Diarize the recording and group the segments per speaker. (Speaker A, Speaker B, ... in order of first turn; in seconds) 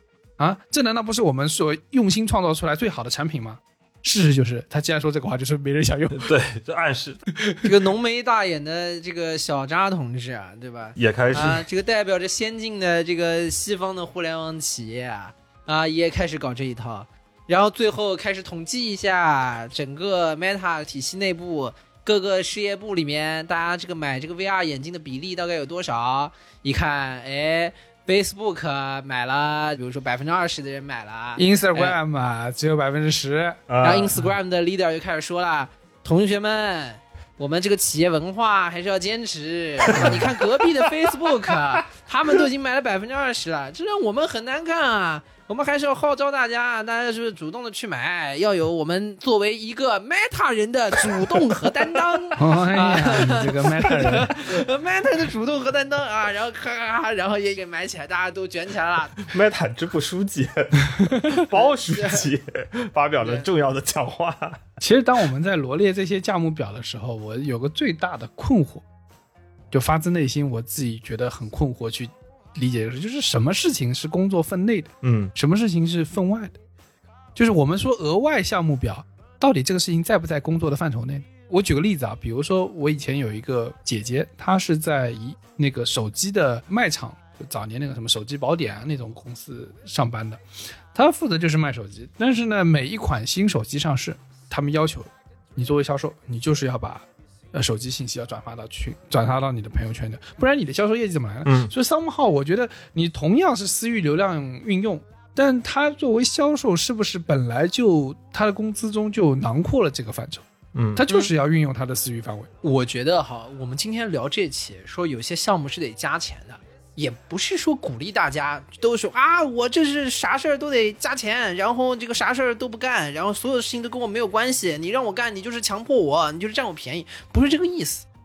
Speaker A: 0.4-6.3, 31.4-33.6, 39.9-40.2, 52.4-54.3, 64.8-68.8, 69.7-76.6, 77.3-90.4, 90.9-110.4, 111.0-112.5
Speaker B: 6.1-7.2, 10.9-11.7, 33.7-34.2, 40.0-40.3, 59.3-64.6, 75.0-75.3, 101.4-101.7, 110.7-111.3
Speaker C: 7.6-32.0, 33.8-59.2, 61.5-62.3, 63.2-63.5, 112.6-128.1